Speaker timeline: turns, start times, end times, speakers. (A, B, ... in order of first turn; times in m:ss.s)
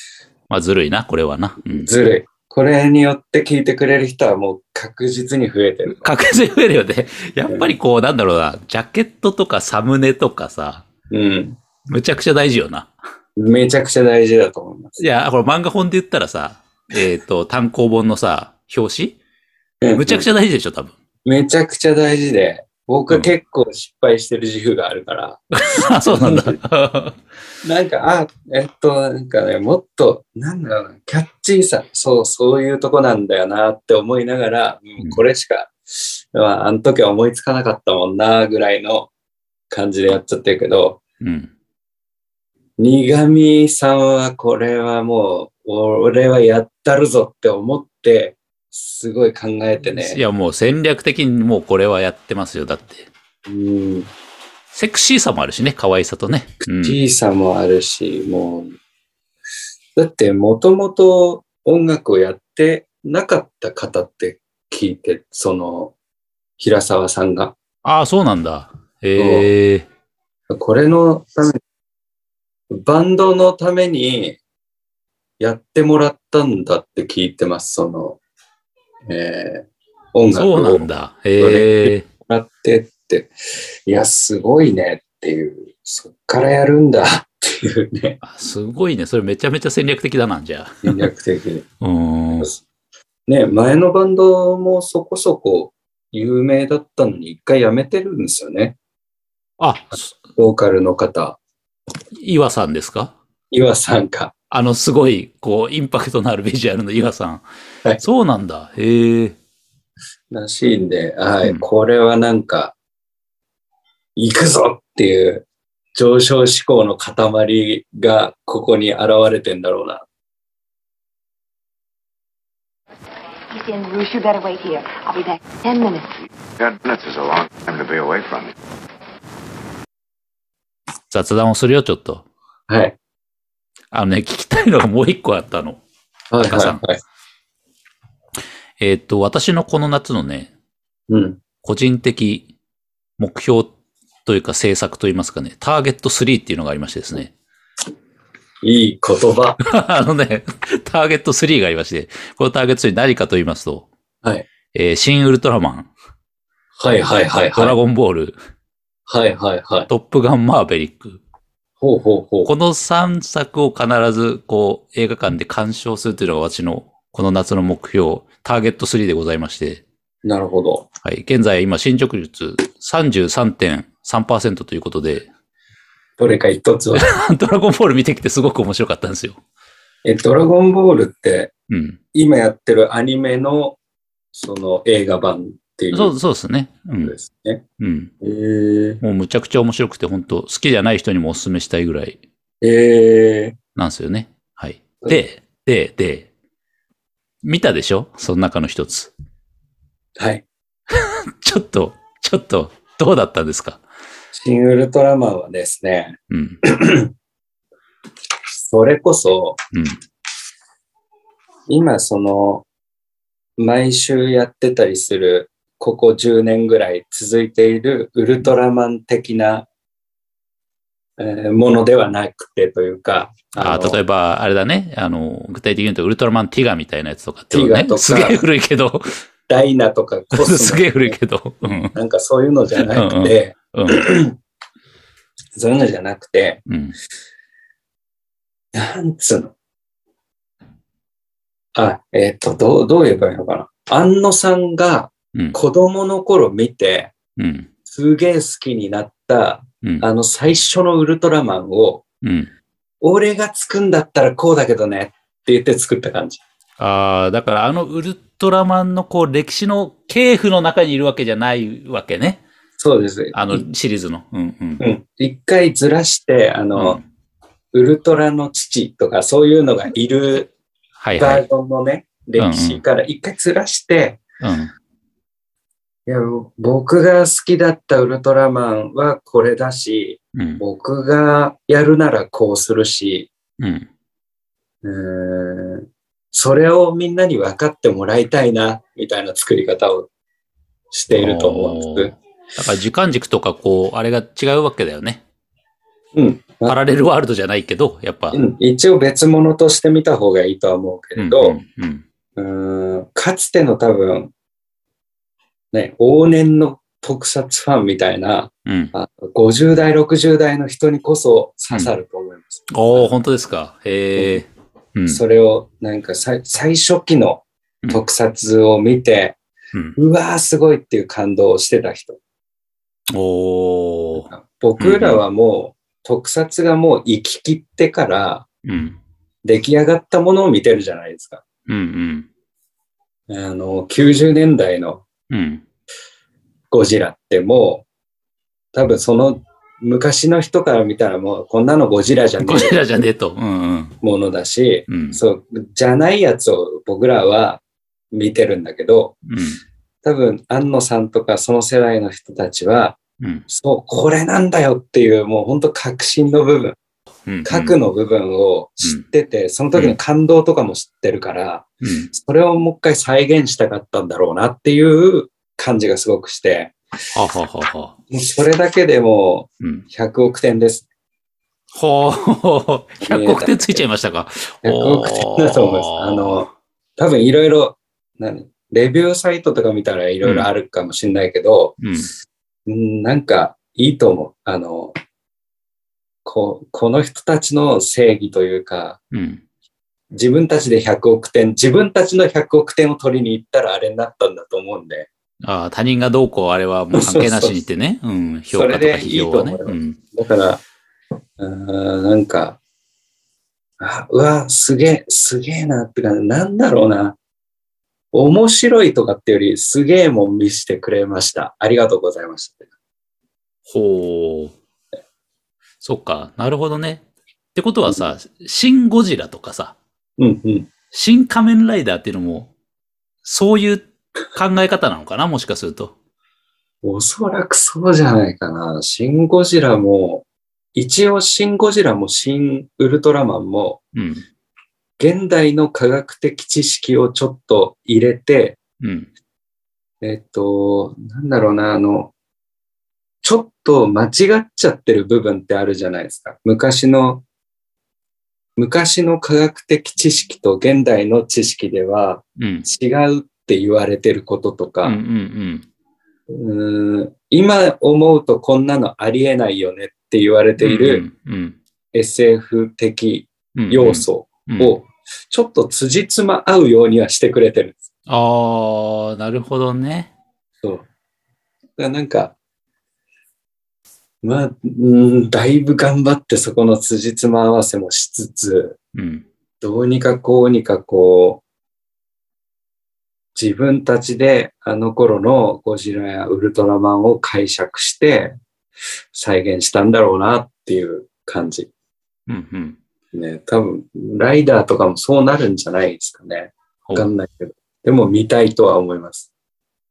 0:00.5-0:01.9 A
0:01.7-0:06.1 B
0:05.9-0:10.9 A
0:11.1-0:11.6 B
0:11.9-0:12.9 A
0:13.4-0:15.0 B
0:15.0-0:19.2 A
0:19.8-0:20.3 B
0:20.0-0:20.9 A
0:21.2-0:25.4 B
0:25.6-0:27.2 A
0:26.0-0:26.6 B
0:27.6-0:39.1 B
0:39.7-0:41.0 B
0:41.2-0:41.5 A
0:42.8-0:50.2 B
0:49.8-0:53.1 A
0:53.5-0:54.1 B
0:54.7-0:57.0 A
0:56.6-0:58.8 B
1:00.0-1:05.9 B
1:06.6-1:07.6 B
1:07.8-1:09.9 A
1:09.2-1:09.5 B
1:10.5-1:11.6 B
1:12.7-1:14.4 B
1:15.4-1:18.2 B
1:19.1-1:20.9 B
1:20.3-1:22.0 A
1:21.4-1:23.3 B
1:23.9-1:28.2 B
1:28.2-1:31.1 A
1:30.8-1:31.7 B
1:31.8-1:32.5 A
1:33.3-1:38.8 B
1:39.6-1:40.0 A
1:40.4-1:41.4 B
1:42.2-1:43.2 A
1:43.5-1:44.3 B
1:44.5-1:47.4 A
1:48.0-1:49.4 A
1:50.3-1:52.7 B
1:54.2-1:55.4 B
1:56.0-2:00.0 B
2:03.5-2:06.2 C
2:06.6-2:08.5 D
2:11.1-2:12.2 A
2:12.7-2:13.0 B
2:13.9-2:15.8 A
2:16.3-2:17.0 B
2:16.4-2:16.8 A
2:18.8-2:20.5 A
2:21.1-2:21.4 B
2:21.6-2:22.5 A
2:23.2-2:23.7 A
2:24.3-2:27.3 A
2:28.6-2:29.6 B
2:29.6-2:33.9 A
2:34.7-2:35.9 A
2:36.8-2:37.8 B
2:37.6-2:38.4 A
2:39.1-2:39.9 B
2:39.9-2:41.2 A
2:41.8-2:42.5 B
2:42.5-2:49.8 A
2:50.2-2:50.9 B
2:51.0-2:55.3 A
2:56.2-2:57.1 B
2:57.0-2:59.4 A
3:00.0-3:01.5 B
3:01.7-3:02.0 A
3:02.1-3:03.8 B
3:04.3-3:06.1 B
3:05.9-3:07.2 A
3:07.0-3:07.6 B
3:07.8-3:08.1 A
3:08.2-3:09.0 B
3:09.0-3:12.2 A
3:12.6-3:13.6 B
3:13.8-3:16.3 A
3:17.4-3:19.1 A
3:20.2-3:20.4 B
3:20.9-3:23.8 A
3:24.3-3:27.1 B
3:26.3-3:26.6 A
3:28.5-3:29.6 B
3:29.7-3:30.0 A
3:31.7-3:32.6 B
3:33.6-3:39.7 B
3:41.2-3:44.0 B
3:43.6-3:49.2 A
3:47.5-3:48.4 B
3:49.5-3:51.2 B
3:50.3-3:52.0 A
3:52.0-3:54.3 B
3:52.8-3:54.0 A
3:55.6-3:56.6 B
3:56.7-3:57.0 A
3:58.7-3:59.5 B
4:01.8-4:07.1 B
4:05.3-4:05.6 A
4:07.4-4:07.7 A
4:07.9-4:12.0 B
4:12.2-4:12.5 A
4:13.0-4:16.4 B
4:16.8-4:22.4 A
4:22.8-4:23.6 B
4:23.3-4:24.8 A
4:24.8-4:27.0 B
4:26.8-4:27.0 A
4:27.7-4:30.5 B
4:31.0-4:31.4 A
4:31.2-4:34.2 B
4:32.4-4:32.8 A
4:34.4-4:34.7 A
4:36.1-4:43.3 B
4:40.4-4:40.6 A
4:43.6-4:43.9 A
4:44.8-4:50.1 B
4:50.9-4:52.2 B
4:51.1-4:55.2 A
4:56.2-4:56.8 B
4:56.7-4:58.4 A
4:58.3-5:01.6 B
5:01.2-5:02.0 A
5:02.4-5:04.3 B
5:05.7-5:13.1 B
5:08.7-5:08.9 A
5:12.7-5:15.2 A
5:14.2-5:14.4 B
5:15.1-5:19.4 B
5:20.0-5:22.2 B
5:23.1-5:25.2 A
5:24.3-5:28.5 B
5:28.7-5:29.0 A
5:29.4-5:31.4 B
5:31.7-5:32.3 A
5:33.3-5:35.1 B
5:35.3-5:35.6 A
5:36.7-5:37.9 B
5:38.7-5:42.8 B
5:42.4-5:44.0 A
5:44.0-5:49.2 B
5:44.9-5:45.2 A
5:49.3-5:49.6 A
5:50.0-5:56.8 B
5:57.3-5:57.8 A
5:57.4-6:06.8 B
6:01.8-6:02.1 A
6:07.1-6:08.0 A
6:08.1-6:10.9 B
6:11.7-6:16.4 A
6:13.0-6:13.8 B
6:14.6-6:21.8 B
6:20.2-6:20.5 A
6:21.8-6:22.1 A
6:22.7-6:25.0 B
6:26.2-6:29.0 B
6:29.1-6:29.4 A
6:30.1-6:35.1 B
6:35.4-6:40.0 A
6:36.9-6:37.5 B
6:38.5-6:40.6 B
6:41.4-6:42.6 B
6:43.8-6:47.2 B
6:48.1-6:52.7 B
6:53.7-6:54.6 A
6:55.8-6:59.8 A
7:00.2-7:00.7 B
7:00.9-7:02.5 A
7:03.2-7:05.9 A
7:06.8-7:10.2 B
7:10.8-7:13.8 B
7:14.0-7:14.2 A
7:15.0-7:18.6 B
7:18.8-7:19.1 A
7:20.0-7:22.1 B
7:23.2-7:27.2 B
7:28.6-7:35.0 B
7:32.4-7:32.7 A
7:34.8-7:35.7 A
7:36.3-7:41.1 B
7:40.6-7:41.6 A
7:41.9-7:47.9 B
7:43.6-7:44.8 A
7:48.1-7:50.1 A
7:51.8-7:52.4 B
7:54.2-7:58.8 B
7:59.0-7:59.3 A
7:59.6-8:01.4 B
8:03.4-8:08.3 B
8:09.1-8:11.7 B
8:12.3-8:12.8 A
8:13.1-8:19.3 B